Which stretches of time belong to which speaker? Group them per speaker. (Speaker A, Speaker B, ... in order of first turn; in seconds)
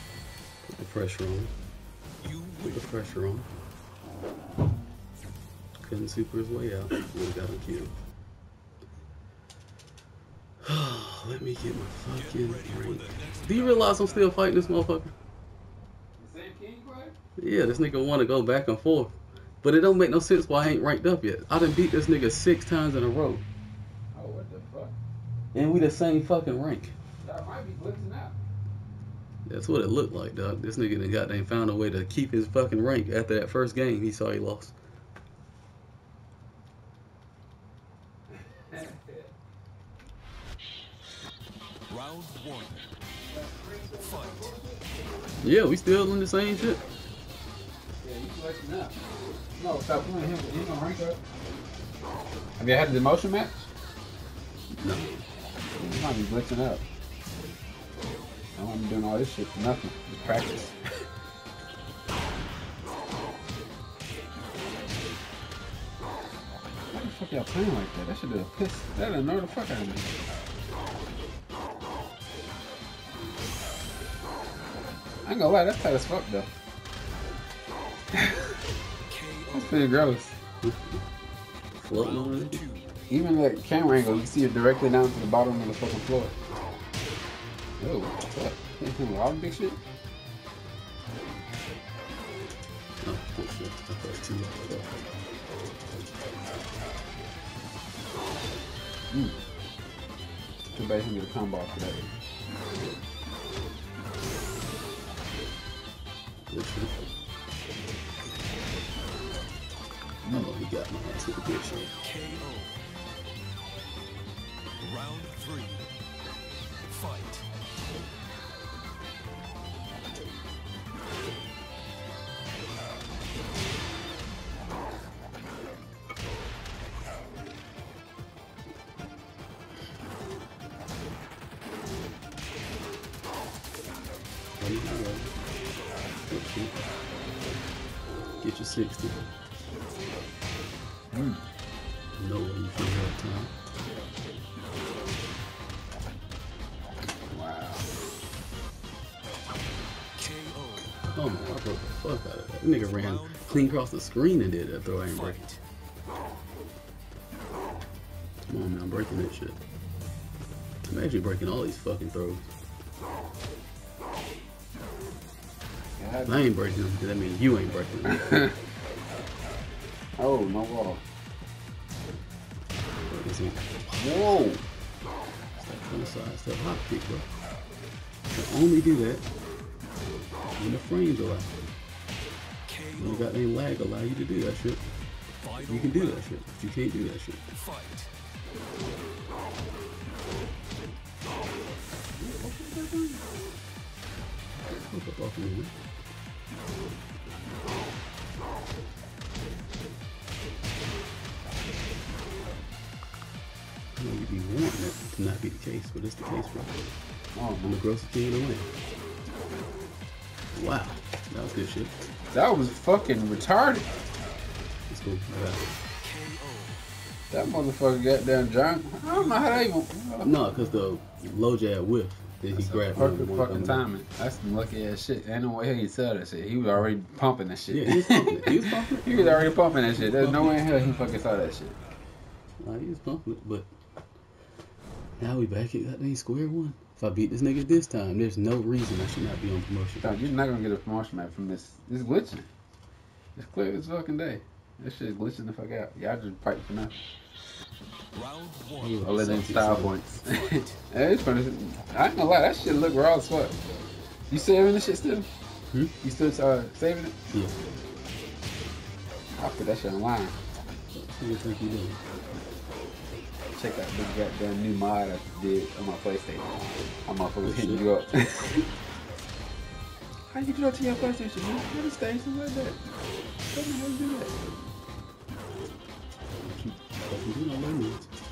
Speaker A: 0.7-1.5, 2.6-3.5, 5.8-8.0, 10.6-15.1, 17.4-23.4, 25.5-26.9, 29.5-34.8, 45.4-46.8, 54.8-55.2, 80.6-81.0, 81.8-82.6, 93.0-94.9, 106.5-106.9, 110.3-112.0, 134.6-135.3, 136.3-136.8, 138.4-139.2, 142.2-143.5, 151.0-155.4, 158.5-159.6, 160.9-162.5, 166.3-168.3, 173.1-174.5, 175.6-177.3, 178.3-179.2, 180.6-181.6, 183.0-184.8, 185.7-187.5, 194.7-195.7, 203.9-206.7, 207.6-208.7, 210.5-211.9, 214.9-215.7, 220.2-223.8, 227.7-230.6, 232.6-233.7, 235.2-240.3, 248.8-249.9, 260.9-262.0, 267.4-267.8, 276.4-278.1
Speaker B: 2.2-2.6, 12.4-13.3, 41.9-42.8, 79.3-79.5, 82.0-82.9, 112.1-112.8, 114.8-115.9, 116.9-117.4, 150.2-150.8, 182.8-183.1, 185.4-186.2, 187.7-188.1, 216.2-216.7, 248.2-248.9
Speaker C: 16.2-17.1, 24.1-24.9, 27.2-28.4, 38.3-39.3, 43.3-45.0, 48.0-49.0, 49.6-51.2, 52.6-53.7, 55.8-56.8, 58.5-60.8, 66.9-70.2, 75.3-76.5, 78.1-78.6, 79.5-80.4, 83.1-86.3, 87.8-89.8, 99.1-99.4, 100.7-102.1, 110.2-110.5, 141.1-141.4, 147.3-147.9, 166.0-166.5, 168.1-168.6, 170.2-171.0, 174.0-174.6, 192.2-193.2, 207.3-207.8, 212.3-213.9, 217.3-220.3, 222.5-231.8, 240.0-242.5, 243.4-247.0, 249.0-253.6, 254.3-255.3, 256.0-257.1, 259.4-260.4, 263.6-266.5, 267.1-268.7, 270.3-272.8, 273.5-274.4